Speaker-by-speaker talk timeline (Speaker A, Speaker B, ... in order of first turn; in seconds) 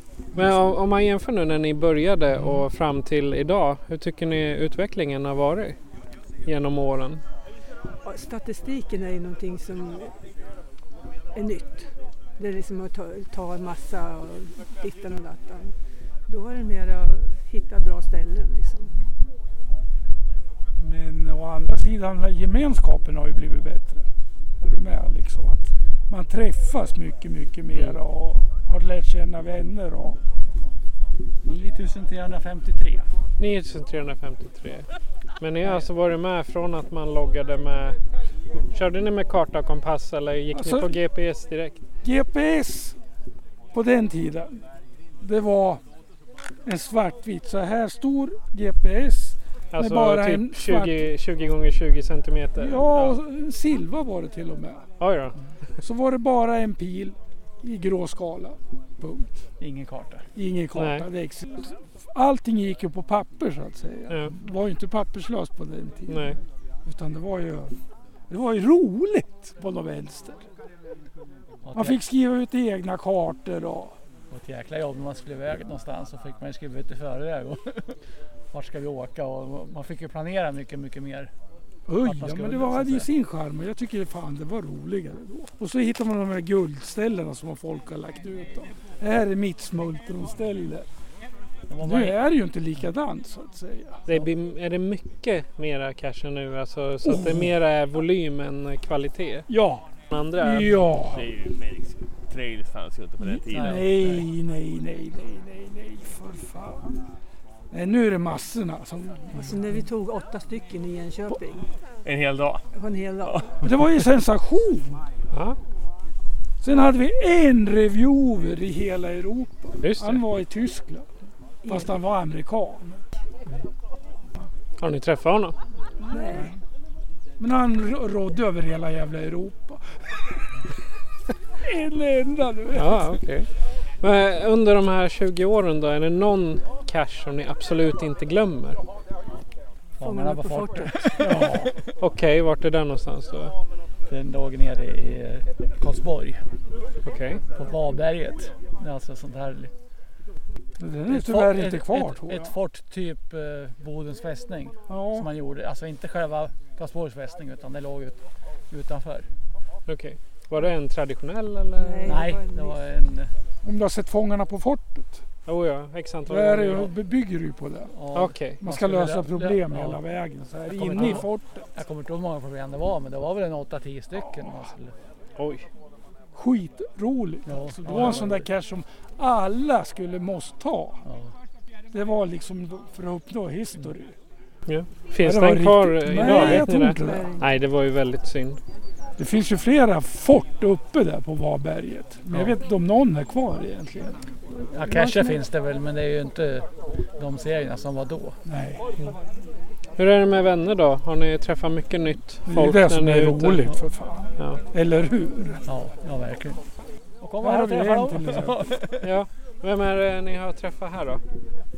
Speaker A: 0.3-5.8, 6.5-7.2, 33.4-34.9, 35.4-38.0, 38.7-41.8, 49.7-53.2, 55.0-55.4, 60.8-61.1, 66.1-66.4, 94.1-99.5, 100.1-100.7, 119.8-120.2, 124.8-125.6, 132.8-133.5, 134.0-138.8, 142.0-143.5, 147.1-147.4, 159.9-162.2, 165.5-166.9, 168.1-168.6, 175.4-175.7, 184.7-188.6, 200.0-203.7, 209.0-211.2
Speaker B: 8.0-10.1, 11.3-15.7, 16.3-18.9, 109.4-111.7, 112.7-113.5, 121.6-121.9, 126.1-126.5, 140.0-141.1, 161.8-162.8, 187.0-187.4
Speaker C: 20.8-24.0, 24.6-30.2, 40.5-41.0, 42.0-43.0, 43.7-44.6, 45.2-45.8, 46.7-51.0, 52.6-54.9, 55.8-59.3, 60.4-66.3, 66.9-67.7, 68.3-70.5, 71.7-74.0, 81.9-90.9, 91.8-94.0, 97.0-97.5, 99.5-99.9, 100.4-101.2, 103.2-106.9, 107.7-109.6, 113.6-115.0, 116.6-121.1, 121.7-123.0, 126.1-126.5, 127.4-129.8, 131.6-133.2, 141.2-141.7, 150.8-152.5, 154.9-155.3, 163.6-165.2, 166.3-167.9, 168.4-171.7, 176.3-181.0, 181.9-184.2, 185.2-187.3, 189.2-194.2, 194.9-195.3, 198.5-198.8, 202.5-205.6, 207.4-208.7
Speaker D: 31.4-33.1, 59.6-60.3, 71.6-72.0, 74.3-78.0, 78.5-81.3, 82.0-83.1, 91.7-92.2, 103.5-104.2, 140.0-141.7, 144.1-146.4, 147.5-149.7, 151.1-159.3, 162.1-163.3, 167.9-170.0, 170.7-174.9, 177.5-178.5, 181.1-181.3, 194.7-198.4, 205.7-206.6, 207.2-209.0
Speaker E: 101.0-104.1, 112.0-112.6, 113.2-113.5